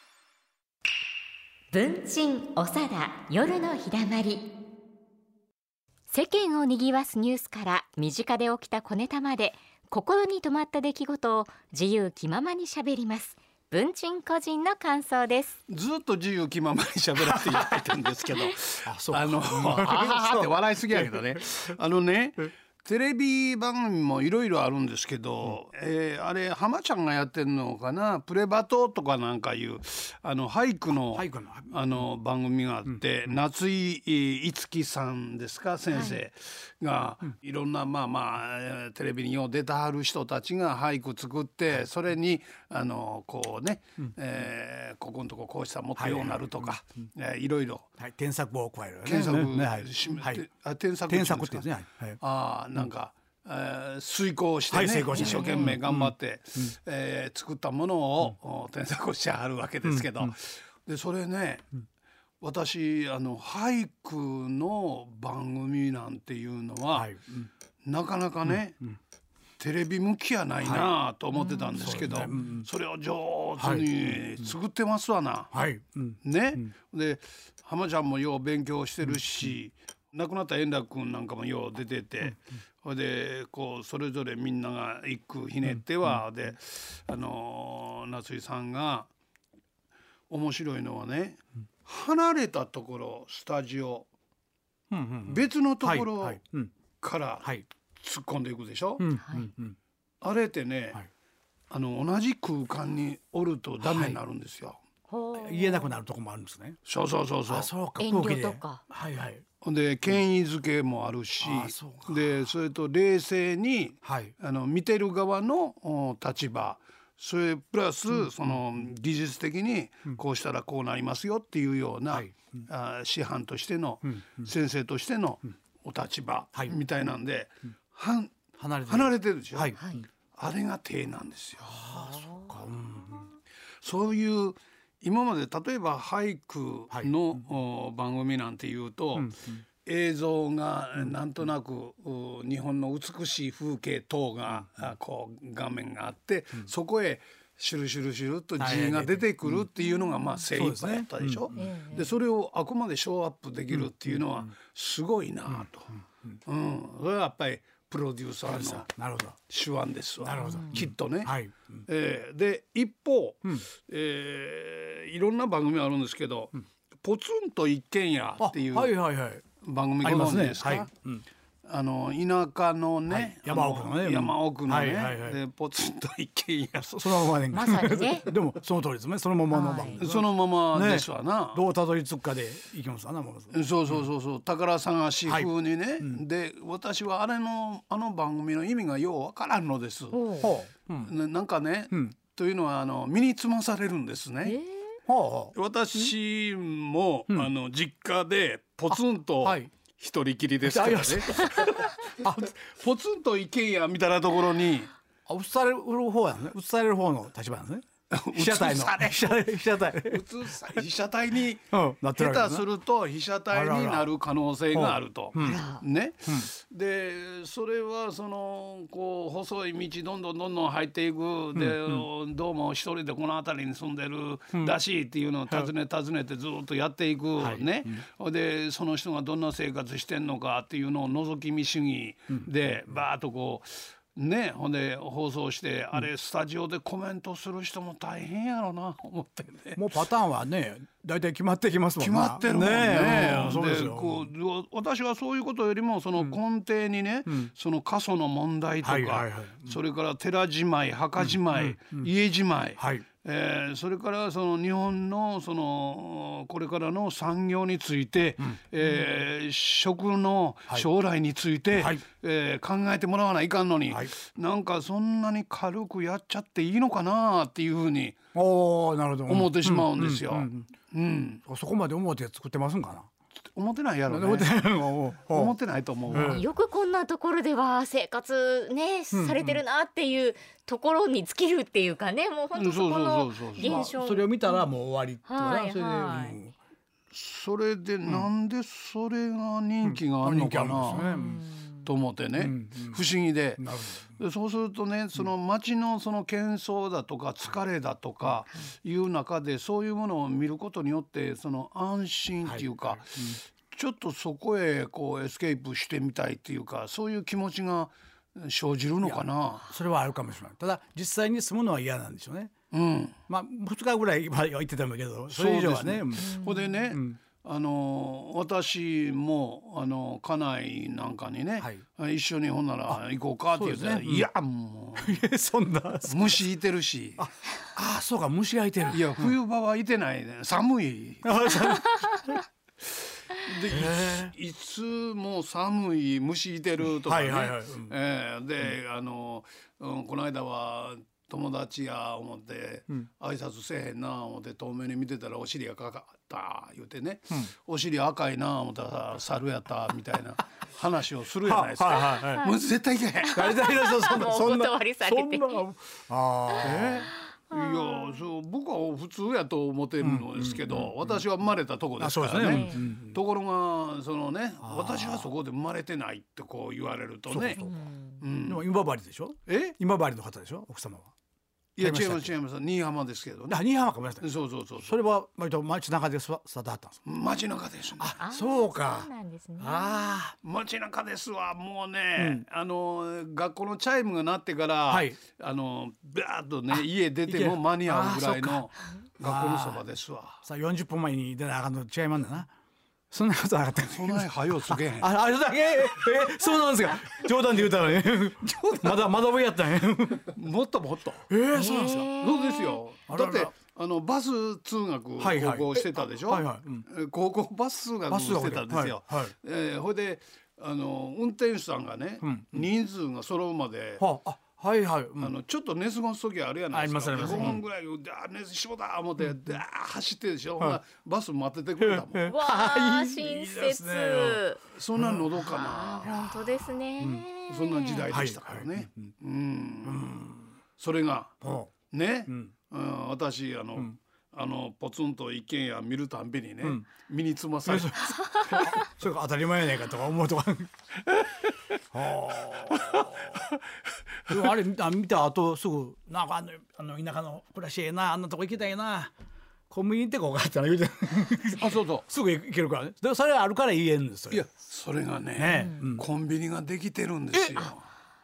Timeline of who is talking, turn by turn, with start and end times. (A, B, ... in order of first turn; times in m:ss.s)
0:01.7-0:04.5 A
0:06.1-0:15.5 A
0:15.7-0:47.9 B
0:18.8-0:21.4 C
0:31.1-0:32.1 C
0:32.8-0:33.4 C
0:35.9-0:36.2 A
0:46.0-0:46.8 C
0:48.0-0:50.4 C
0:49.0-1:01.7 B
0:51.1-0:52.2 C
0:54.7-0:56.7 C
0:55.1-0:55.8 A
0:59.8-1:00.3 C
1:02.4-1:07.1 B
1:06.9-1:07.5 C
1:07.8-1:08.8 B
1:08.4-1:08.9 C
1:09.6-1:15.5 B
1:10.6-1:10.9 C
1:11.3-1:11.9 A
1:11.8-1:12.7 C
1:13.6-1:14.5 C
1:15.5-1:16.7 C
1:16.2-1:29.1 B
1:19.0-1:19.6 C
1:25.6-1:26.2 C
1:30.3-1:34.1 B
1:34.9-1:36.7 C
1:35.2-1:36.4 B
1:37.0-1:39.1 B
1:39.0-1:39.8 C
1:39.2-1:39.5 A
1:40.2-1:41.0 B
1:41.7-1:44.8 B
1:43.8-1:44.2 C
1:45.1-1:45.9 A
1:45.3-1:46.8 C
1:46.8-1:47.7 B
1:47.5-1:49.4 C
1:48.0-1:48.8 A
1:49.6-2:09.8 B
1:51.4-1:52.5 C
1:54.0-1:54.3 C
1:58.1-1:58.6 C
2:02.1-2:02.6 C
2:04.0-2:04.5 C
2:08.6-2:09.8 C
2:09.8-2:10.0 A
2:10.3-2:11.8 B
2:11.6-2:13.3 C
2:12.1-2:12.5 A
2:13.8-2:19.3 B
2:16.9-2:17.4 C
2:19.1-2:19.6 C
2:19.8-2:38.9 B
2:24.5-2:24.9 C
2:28.6-2:29.7 C
2:30.5-2:31.6 C
2:31.6-2:32.1 A
2:33.7-2:34.5 C
2:35.5-2:36.4 C
2:38.4-2:39.4 C
2:39.5-2:41.3 B
2:40.2-2:41.8 C
2:40.4-2:40.8 A
2:41.8-2:49.0 B
2:48.4-2:49.4 C
2:49.6-2:50.9 B
2:50.0-2:51.2 C
2:51.6-2:57.3 B
2:53.1-2:55.4 C
2:56.7-3:04.0 C
2:57.5-2:58.3 A
2:59.5-3:00.0 A
3:00.0-3:01.6 B
3:03.5-3:10.4 B
3:05.2-3:06.2 C
3:10.1-3:10.5 A
3:10.4-3:11.1 C
3:11.0-3:14.6 B
3:14.4-3:14.9 A
3:15.1-3:16.0 C
3:15.5-3:24.9 B
3:18.9-3:19.7 C
3:20.6-3:22.5 C
3:25.3-3:30.8 C
3:28.1-3:59.9 B
3:31.7-3:32.6 C
3:33.5-3:34.1 C
3:34.7-3:35.6 C
3:35.4-3:35.8 A
3:41.5-3:42.0 C
3:47.4-3:48.0 C
3:59.7-4:04.3 C
4:02.0-4:28.2 B
4:07.2-4:07.5 C
4:08.8-4:09.8 C
4:11.2-4:12.1 C
4:12.8-4:13.0 C
4:18.4-4:18.9 C
4:21.7-4:22.0 C
4:28.3-4:30.7 C
4:29.2-4:31.4 B
4:31.4-4:33.1 C
4:33.5-4:36.4 B
4:34.1-4:35.6 C
4:36.1-4:36.4 C
4:36.1-4:44.7 A
4:39.1-4:39.6 C
4:42.5-4:43.9 B
4:43.6-4:46.5 C
4:45.2-4:46.4 A
4:47.1-4:51.0 B
4:49.8-4:51.4 C
4:50.9-4:51.9 A
4:51.8-5:09.8 B
4:52.4-4:54.1 C
5:02.4-5:03.4 C
5:09.0-5:12.5 C
5:12.7-5:13.2 B
5:13.3-5:17.2 C
5:15.3-5:25.2 B
5:16.2-5:16.8 A
5:23.5-5:24.3 C
5:25.0-5:26.4 C
5:26.0-5:27.3 B
5:27.2-5:29.3 C
5:28.9-5:31.6 B
5:31.2-5:32.4 C
5:33.3-5:53.6 B
5:33.7-5:34.3 C
5:36.8-5:37.9 C
5:51.4-5:52.5 C
5:52.2-5:52.6 A
5:53.3-5:57.1 C
5:53.3-5:55.6 A
5:56.6-6:07.7 B
5:57.5-5:58.2 A
6:00.0-6:01.2 C
6:02.0-6:03.2 C
6:02.5-6:02.8 A
6:04.6-6:05.3 C
6:07.3-6:07.8 C
6:07.6-6:08.2 A
6:08.2-6:08.6 B
6:08.4-6:11.1 C
6:09.4-6:09.8 B
6:11.8-6:13.6 B
6:11.8-6:12.4 C
6:13.5-6:17.0 C
6:14.2-6:15.0 B
6:17.0-6:18.2 B
6:18.0-6:20.3 C
6:18.2-6:20.1 A
6:20.4-6:30.4 B
6:22.2-6:22.4 C
6:24.9-6:25.2 C
6:26.7-6:29.8 C
6:30.4-6:32.5 C
6:33.1-6:40.3 C
6:33.8-6:35.1 B
6:40.3-6:41.3 B
6:41.3-6:42.2 C
6:41.5-6:42.8 A
6:42.2-6:54.0 B
6:43.1-6:43.5 C
6:45.2-6:46.8 C
6:48.1-6:49.3 C
6:52.2-6:52.7 C
6:54.0-6:55.3 C
6:55.2-7:02.3 B
6:56.7-6:57.6 C
6:57.2-6:57.6 A
6:59.2-6:59.6 C
7:01.8-7:04.4 C
7:02.2-7:04.6 A
7:04.7-7:06.2 B
7:04.9-7:05.3 C
7:05.4-7:08.1 A
7:07.0-7:07.3 C
7:07.5-7:10.1 B
7:08.1-7:09.1 C
7:09.8-7:10.6 C
7:10.8-7:18.2 B
7:11.4-7:11.7 C
7:12.3-7:12.5 C
7:17.6-7:20.7 C
7:21.9-7:23.4 C
7:24.3-7:29.1 C
7:29.7-7:34.4 C
7:31.6-7:32.1 B
7:34.3-7:37.8 B
7:35.3-7:36.0 C
7:35.5-7:35.8 A
7:37.3-7:37.7 C